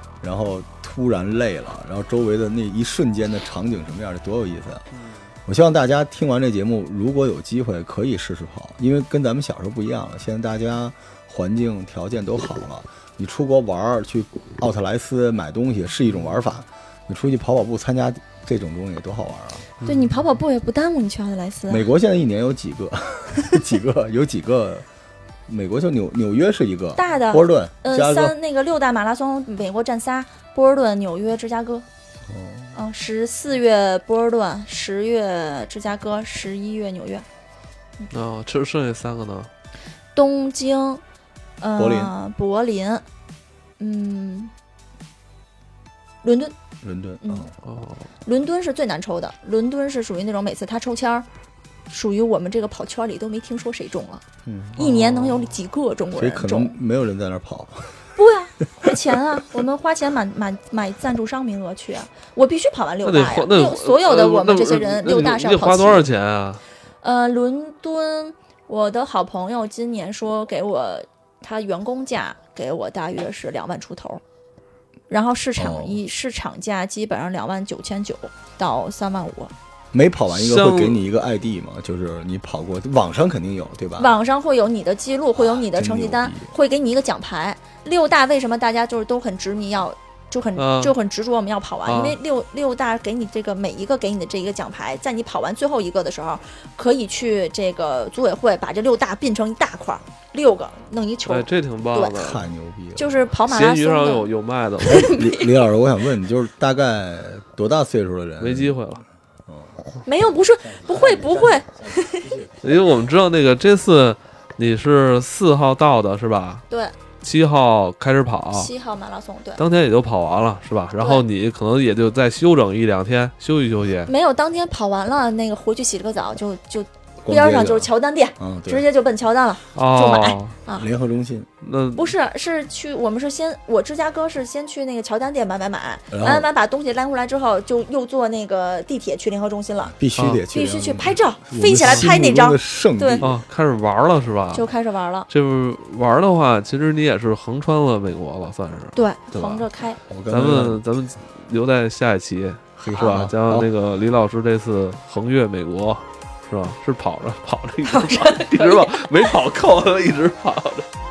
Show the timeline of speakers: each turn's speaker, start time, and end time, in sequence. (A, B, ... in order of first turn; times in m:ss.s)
0:00.2-0:04.9 A
0:04.9-0:05.3 B
0:05.4-0:19.7 A
0:19.8-0:20.3 B
0:19.8-0:21.9 C
0:21.7-0:24.9 A
0:25.5-0:28.3 A
0:27.0-0:31.9 C
0:32.3-0:32.8 A
0:32.7-0:37.3 C
0:38.1-0:39.5 B
0:40.1-0:41.0 C
0:41.6-0:43.0 C
0:41.8-0:42.1 A
0:43.8-0:44.5 C
0:46.2-0:46.6 C
0:46.8-0:47.5 A
0:47.2-0:47.5 C
0:47.6-0:48.1 B
0:48.2-0:51.3 C
0:51.9-0:54.2 C
0:54.4-0:54.8 A
0:54.8-0:56.8 C
0:54.8-0:55.5 B
0:56.1-0:58.0 A
0:58.2-1:06.1 C
1:03.0-1:06.6 B
1:07.0-1:14.2 C
1:15.1-1:19.5 C
1:15.6-1:16.0 A
1:19.9-1:24.1 A
1:20.3-1:21.0 B
1:24.0-1:42.2 C
1:25.4-1:26.5 A
1:30.6-1:30.9 B
1:31.9-1:32.2 B
1:41.3-1:42.4 B
1:42.2-1:43.2 A
1:43.0-1:44.3 C
1:43.5-1:45.2 B
1:44.8-1:45.5 C
1:44.9-1:48.8 A
1:48.4-1:49.0 B
1:49.5-1:49.8 A
1:50.0-1:52.3 C
1:50.7-1:52.8 A
1:52.6-1:56.6 B
1:56.7-1:57.0 C
1:57.2-1:58.7 B
1:58.5-1:59.6 C
1:59.6-2:04.1 B
2:01.0-2:01.2 C
2:04.1-2:10.9 C
2:07.2-2:08.8 A
2:09.8-2:10.6 B
2:10.8-2:11.5 A
2:11.6-2:12.1 B
2:11.9-2:19.9 C
2:16.1-2:16.5 A
2:20.0-2:23.4 A
2:20.2-2:20.4 B
2:20.5-2:23.3 C
2:21.8-2:22.1 B
2:23.2-2:24.7 B
2:24.5-2:25.3 C
2:25.3-2:29.6 B
2:28.9-2:30.0 C
2:30.1-2:30.8 A
2:30.3-2:40.9 B
2:32.8-2:33.7 A
2:32.9-2:33.2 C
2:37.8-2:39.3 C